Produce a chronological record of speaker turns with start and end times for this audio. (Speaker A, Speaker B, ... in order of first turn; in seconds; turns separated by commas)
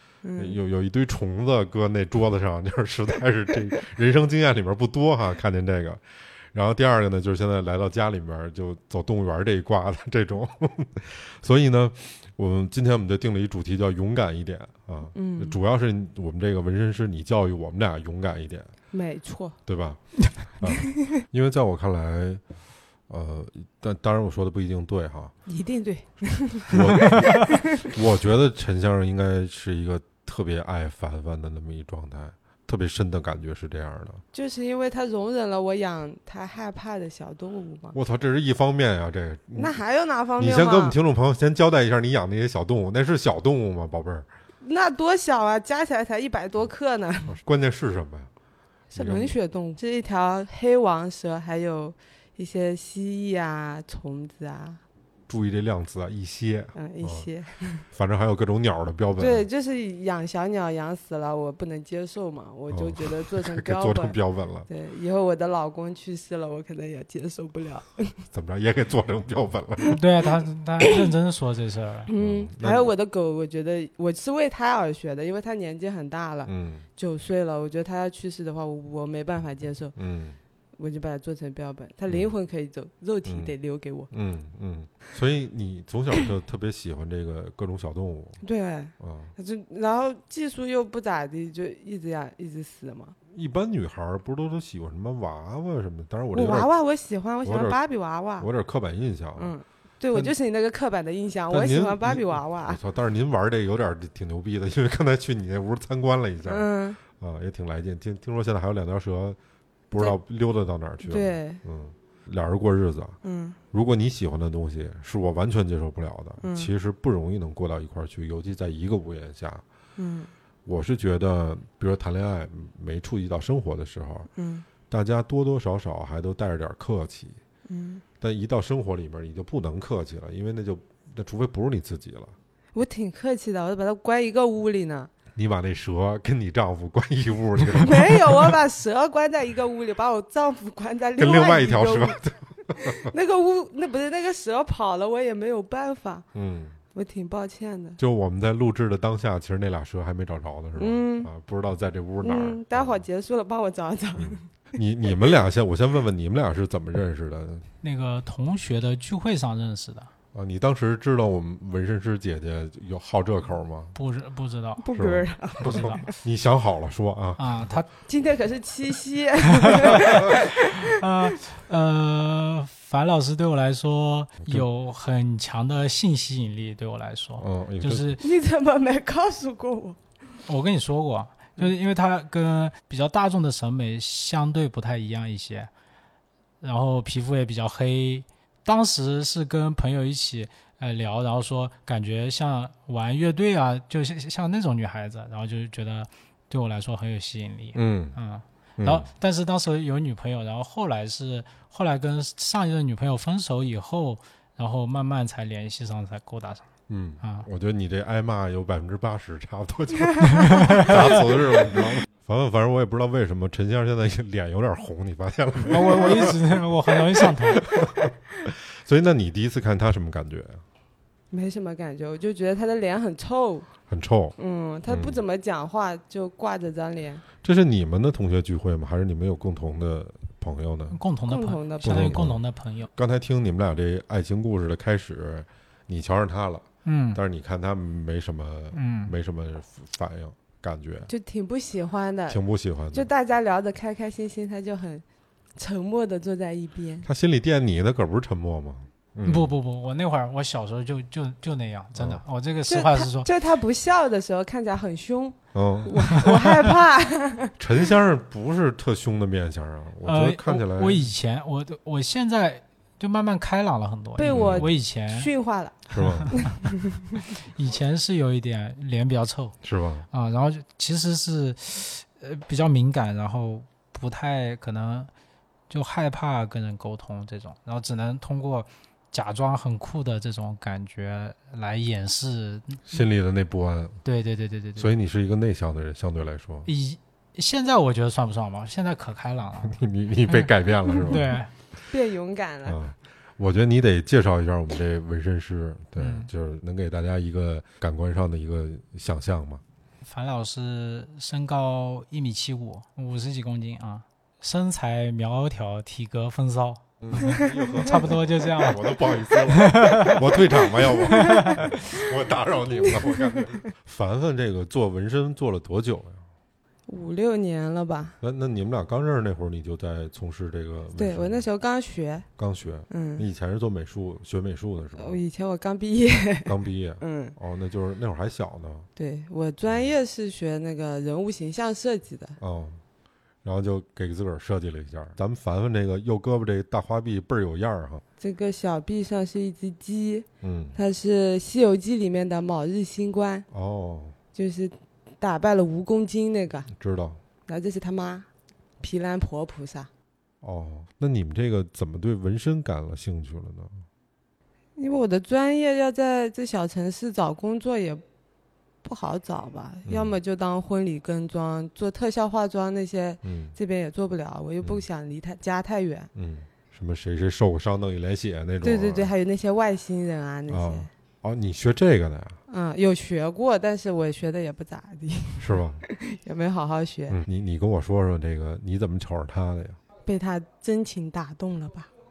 Speaker A: 0.2-0.6, Speaker B: 0.4-18.7, Speaker A: 15.1-15.6, Speaker A: 18.9-19.6, Speaker B: 19.6-22.4, Speaker B: 23.1-25.3, Speaker A: 25.5-27.6, Speaker B: 26.7-34.2, Speaker A: 34.3-38.0, Speaker B: 37.9-39.8, Speaker A: 39.5-41.0, Speaker B: 40.4-44.3, Speaker A: 44.6-47.3, Speaker B: 47.3-48.3, Speaker B: 48.9-49.3, Speaker A: 48.9-54.8, Speaker B: 55.3-57.3, Speaker A: 56.8-57.8, Speaker B: 57.9-59.5, Speaker A: 59.2-64.1, Speaker B: 62.7-64.7, Speaker A: 64.7-68.1, Speaker B: 68.3-69.9, Speaker C: 69.9-72.1, Speaker A: 72.1-79.9, Speaker B: 72.2-72.9, Speaker B: 76.5-76.8, Speaker B: 80.0-80.4, Speaker A: 80.8-84.1, Speaker B: 83.2-83.5, Speaker B: 84.1-88.4, Speaker A: 88.4-93.1, Speaker B: 89.0-89.3, Speaker B: 93.3-96.7, Speaker A: 96.3-98.5, Speaker B: 97.4-97.8, Speaker B: 98.4-99.5, Speaker A: 99.3-102.8, Speaker B: 101.5-109.4, Speaker A: 106.4-107.0, Speaker B: 109.9-113.2, Speaker A: 111.0-111.6, Speaker A: 113.2-113.6, Speaker B: 113.7-119.6, Speaker A: 116.4-116.7, Speaker A: 120.0-120.3, Speaker B: 120.6-124.3, Speaker A: 124.3-124.7, Speaker B: 124.9-127.4, Speaker A: 127.7-128.0, Speaker B: 128.2-132.3, Speaker A: 132.7-135.1, Speaker B: 135.3-138.5, Speaker A: 137.8-142.2, Speaker B: 141.2-143.1, Speaker A: 142.8-146.2, Speaker B: 146.3-146.8, Speaker A: 146.9-148.0, Speaker B: 148.0-152.9, Speaker A: 150.8-151.3, Speaker A: 152.2-154.4, Speaker B: 154.2-157.7, Speaker C: 157.8-160.1, Speaker B: 160.3-163.9, Speaker C: 163.9-164.8, Speaker A: 164.8-166.0, Speaker B: 164.9-167.7, Speaker C: 165.6-166.1, Speaker C: 167.4-167.9, Speaker A: 168.1-170.9, Speaker C: 170.0-178.2, Speaker B: 177.4-178.1, Speaker A: 178.2-180.0, Speaker C: 180.5-185.7, Speaker C: 186.6-206.7, Speaker B: 197.7-198.2, Speaker B: 198.8-199.1, Speaker B: 206.9-216.6, Speaker C: 207.2-207.5, Speaker C: 210.2-211.2, Speaker C: 215.7-217.7, Speaker B: 217.1-220.6, Speaker A: 221.3-223.7, Speaker B: 223.9-224.3, Speaker A: 224.4-227.2, Speaker B: 224.9-225.2, Speaker B: 227.4-231.0, Speaker C: 230.9-232.9, Speaker A: 231.3-232.3, Speaker B: 231.8-232.4, Speaker B: 232.9-241.1, Speaker C: 236.8-237.2, Speaker C: 238.7-239.1, Speaker A: 241.1-242.4, Speaker B: 242.3-243.1, Speaker A: 242.9-245.0, Speaker A: 245.6-247.1, Speaker B: 247.0-249.5, Speaker C: 249.2-253.3, Speaker B: 251.9-252.2, Speaker A: 252.7-257.6, Speaker B: 255.5-256.1, Speaker B: 257.6-261.1, Speaker C: 260.0-265.3, Speaker A: 264.2-265.8, Speaker B: 264.3-264.7, Speaker B: 265.9-266.4, Speaker C: 265.9-266.6, Speaker A: 266.4-267.0, Speaker C: 267.4-269.6, Speaker B: 269.6-270.1, Speaker C: 270.1-275.1, Speaker C: 275.7-283.0, Speaker B: 282.9-284.0, Speaker C: 284.0-284.9, Speaker B: 284.8-286.7, Speaker C: 286.6-290.5, Speaker B: 289.6-291.3, Speaker C: 291.0-291.5, Speaker A: 291.9-292.8, Speaker B: 292.6-299.6, Speaker C: 296.0-296.3, Speaker C: 300.0-308.9, Speaker B: 307.0-316.2, Speaker C: 309.5-310.1, Speaker A: 309.7-310.1, Speaker A: 310.8-311.7, Speaker A: 312.8-313.5, Speaker A: 316.9-318.1, Speaker B: 318.2-321.4, Speaker A: 320.9-322.2, Speaker B: 322.4-325.2, Speaker A: 322.9-323.3, Speaker A: 324.9-327.3, Speaker B: 326.5-328.9, Speaker A: 328.9-332.4, Speaker B: 332.4-332.8, Speaker B: 333.4-338.0, Speaker A: 338.2-343.4, Speaker B: 340.4-340.8, Speaker B: 343.5-344.1, Speaker A: 344.3-346.7, Speaker B: 346.7-347.2, Speaker A: 347.5-348.3, Speaker A: 348.8-349.9, Speaker B: 350.4-353.8, Speaker A: 354.8-358.0, Speaker A: 358.8-366.1, Speaker B: 359.9-360.1, Speaker B: 363.2-363.6, Speaker B: 366.1-369.1, Speaker A: 368.6-370.9, Speaker B: 370.5-372.4, Speaker A: 372.5-377.2, Speaker B: 375.4-375.8, Speaker B: 377.1-379.8, Speaker A: 380.0-381.9